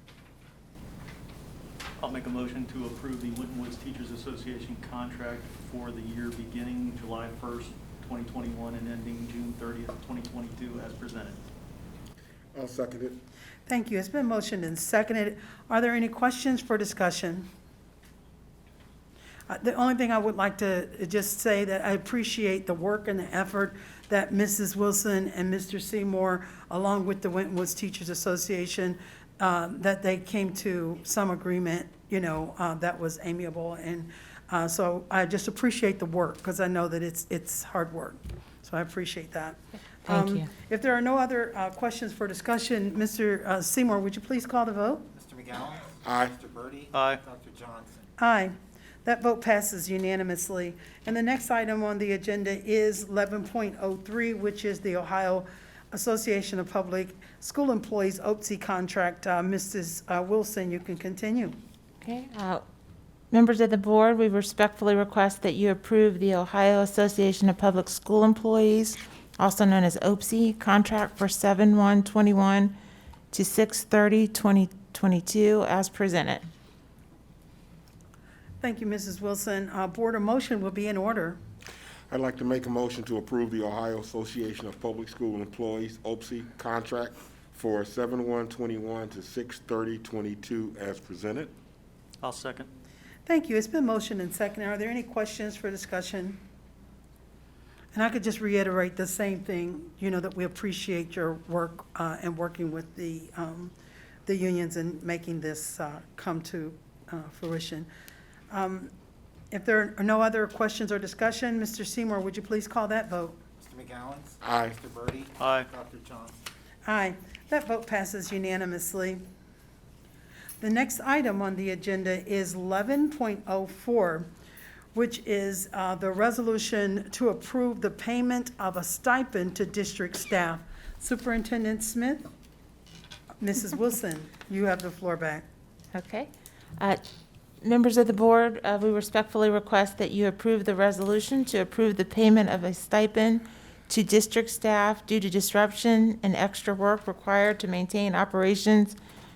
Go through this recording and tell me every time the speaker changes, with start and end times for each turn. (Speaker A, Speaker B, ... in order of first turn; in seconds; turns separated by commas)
Speaker A: 2.0-11.4, Speaker B: 12.5-13.2, Speaker C: 13.7-17.5, Speaker C: 19.5-45.1, Speaker D: 40.1-40.4, Speaker E: 45.1-48.1, Speaker B: 46.0-46.3, Speaker A: 46.9-47.2, Speaker C: 48.2-61.6, Speaker D: 62.0-62.6, Speaker D: 63.3-72.7, Speaker D: 73.3-76.4, Speaker C: 78.6-81.4, Speaker B: 82.1-91.5, Speaker A: 92.2-92.7, Speaker C: 93.2-96.4, Speaker C: 97.9-103.7, Speaker C: 104.2-107.9, Speaker C: 108.5-108.9, Speaker C: 109.5-113.4, Speaker E: 113.6-116.4, Speaker B: 114.4-114.7, Speaker A: 115.4-115.7, Speaker C: 116.8-119.2, Speaker C: 120.6-124.3, Speaker C: 124.9-132.3, Speaker C: 133.4-135.4, Speaker D: 135.9-137.0, Speaker D: 137.6-148.9